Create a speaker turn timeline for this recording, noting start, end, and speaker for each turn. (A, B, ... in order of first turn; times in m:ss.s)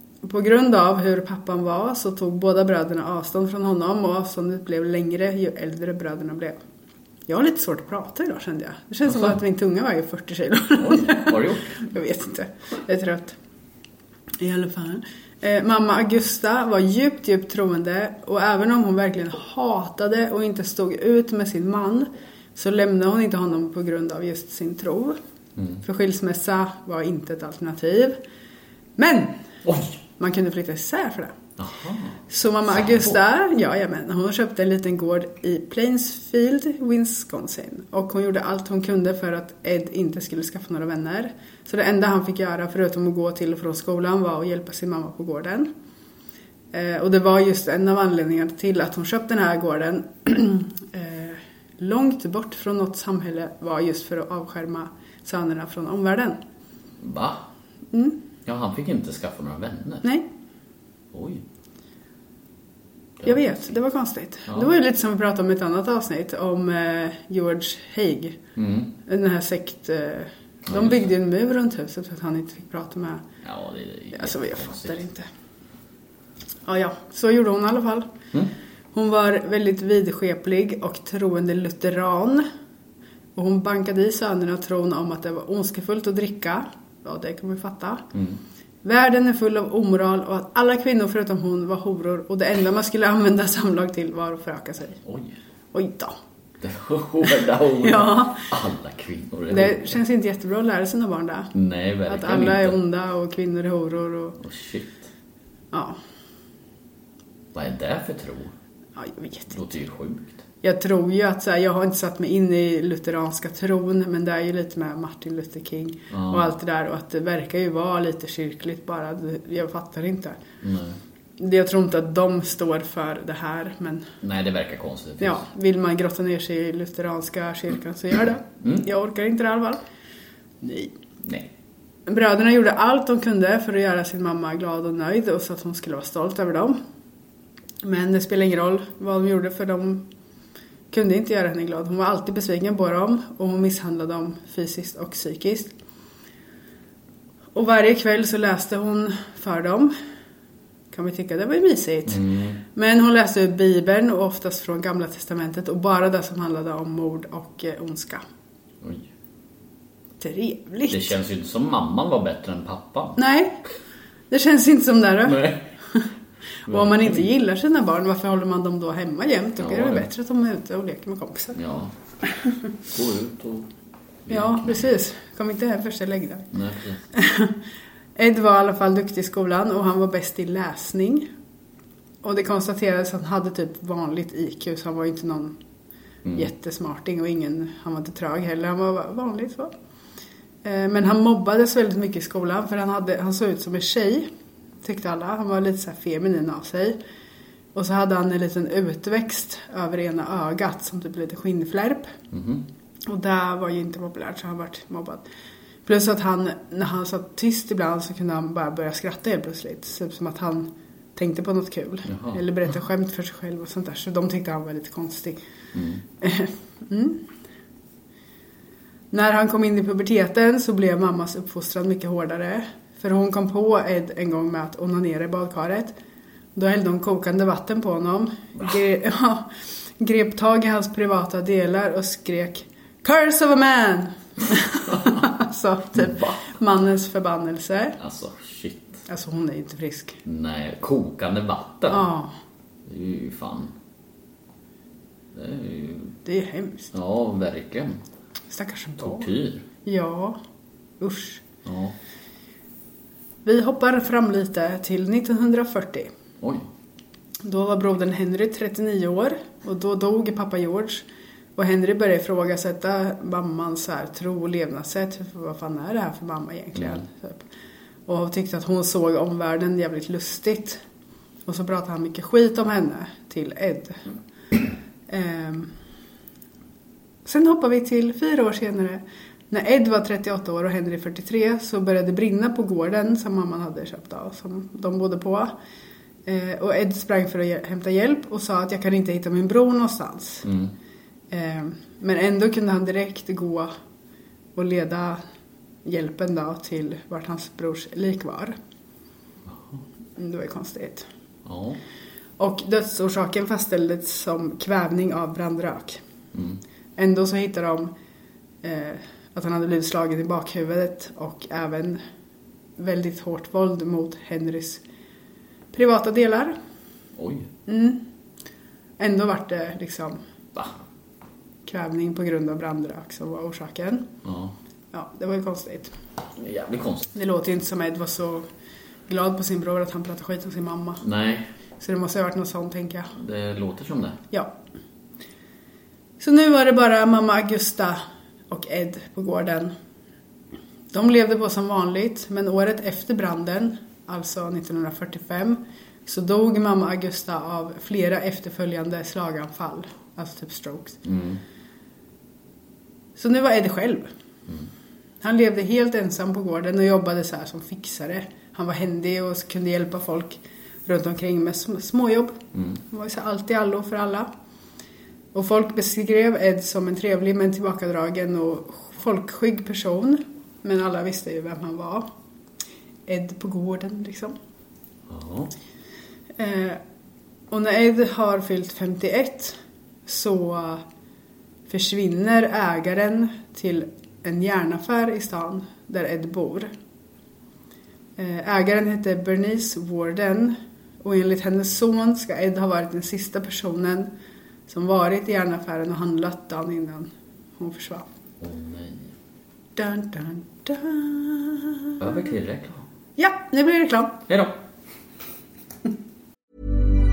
0:00.2-0:06.6 A
0:07.3-0:13.4 A
0:10.8-0:11.8 B
0:14.4-0:25.2 A
0:25.6-0:25.8 B
0:25.8-0:28.2 A
0:29.0-0:29.4 A
0:29.6-0:30.0 B
0:30.2-0:31.4 A
0:31.6-0:33.2 B
0:32.3-0:45.7 A
0:46.7-0:56.4 A
0:57.0-0:57.4 B
0:57.9-0:58.2 A
0:58.4-1:00.0 B
1:01.1-1:01.4 B
1:03.2-1:08.4 A
1:04.5-1:04.7 B
1:08.6-1:08.9 B
1:09.0-1:13.2 A
1:10.7-1:11.1 B
1:13.4-1:15.0 B
1:14.1-1:15.3 A
1:16.6-1:18.1 A
1:18.9-1:22.4 A
1:23.4-1:28.0 A
1:28.1-1:28.4 B
1:28.8-1:35.0 A
1:35.0-1:35.3 B
1:35.7-1:36.2 A
1:36.6-1:40.0 B
1:37.3-1:38.5 A
1:39.5-1:41.5 A
1:41.5-1:42.8 B
1:42.1-1:44.4 A
1:44.4-1:45.1 B
1:45.7-1:46.0 A
1:47.5-1:48.5 B
1:49.0-1:49.5 A
1:49.5-1:50.4 B
1:50.6-2:00.4 A
1:56.1-1:56.5 B
2:00.6-2:01.0 B
2:01.4-2:04.1 A
2:04.2-2:05.4 B
2:05.2-2:09.8 A
2:08.6-2:08.9 B
2:10.6-2:10.9 A
2:11.2-2:11.5 B
2:12.1-2:16.8 A
2:17.8-2:20.0 A
2:20.9-2:25.7 A
2:27.5-2:29.9 A
2:30.9-2:32.2 A
2:32.1-2:32.6 B
2:32.7-2:38.2 A
2:40.2-2:41.1 A
2:40.9-2:43.2 B
2:43.2-2:43.6 A
2:44.3-2:46.1 A
2:45.2-2:45.7 B
2:46.7-2:51.6 A
2:46.7-2:47.3 B
2:49.6-2:50.1 B
2:51.5-2:51.9 B
2:52.9-2:53.7 B
2:54.2-2:54.9 B
2:54.3-2:56.5 A
2:56.5-2:57.0 B
2:57.1-2:57.6 A
2:58.2-3:01.3 A
3:02.2-3:05.6 A
3:06.2-3:06.5 B
3:06.4-3:09.7 A
3:10.6-3:14.3 A
3:14.8-3:17.0 A
3:17.7-3:22.1 A
3:22.3-3:22.6 B
3:23.1-3:25.2 A
3:25.8-3:35.4 A
3:32.0-3:32.4 B
3:35.7-3:36.0 B
3:36.2-3:37.2 A
3:39.1-3:46.0 A
3:46.5-3:58.0 A
3:55.9-3:56.4 B
3:58.0-3:59.0 B
3:59.1-4:00.2 A
4:00.2-4:02.1 B
4:01.9-4:02.3 A
4:02.9-4:03.7 B
4:05.3-4:06.1 B
4:06.2-4:06.9 A
4:06.9-4:08.0 B
4:08.5-4:09.3 A
4:09.0-4:09.6 B
4:09.8-4:10.4 A
4:11.0-4:11.4 A
4:11.6-4:11.9 B
4:13.4-4:16.1 A
4:16.4-4:16.6 B
4:17.4-4:21.0 A
4:21.6-4:27.4 A
4:26.8-4:27.0 B
4:28.1-4:30.8 A
4:31.4-4:34.0 A
4:35.1-4:35.7 A
4:37.2-4:45.5 A
4:46.2-4:50.4 A
4:50.4-4:50.7 B
4:51.3-4:53.7 A
4:54.5-4:55.2 A
4:55.8-4:58.6 A
4:59.5-4:59.8 B
5:00.2-5:01.1 A
5:01.4-5:01.8 B
5:02.4-5:06.0 A
5:06.3-5:06.6 B
5:07.0-5:07.9 A
5:08.6-5:12.0 A
5:12.8-5:14.8 A
5:15.7-5:16.5 A
5:17.2-5:17.5 B
5:17.7-5:18.0 A
5:19.0-5:20.2 A
5:21.6-5:24.1 A
5:24.2-5:24.5 B
5:24.9-5:25.9 A
5:26.4-5:27.1 B
5:27.1-5:28.4 A
5:29.1-5:31.0 A
5:31.0-5:31.4 B
5:31.8-5:33.1 A
5:33.2-5:34.2 B
5:34.3-5:34.6 A
5:36.2-5:39.7 A
5:40.9-5:51.0 A
5:51.0-5:51.4 B
5:53.2-5:54.1 A
5:55.2-6:04.3 A
6:05.3-6:12.1 A
6:13.1-6:14.3 A
6:15.1-6:15.5 B
6:16.4-6:16.8 A
6:17.5-6:20.8 A
6:21.7-6:26.7 A
6:28.2-6:34.1 A
6:34.7-6:38.1 A
6:38.4-6:39.1 B
6:39.8-6:42.0 A
6:42.0-6:42.8 B
6:43.2-6:44.2 A
6:44.3-6:44.6 B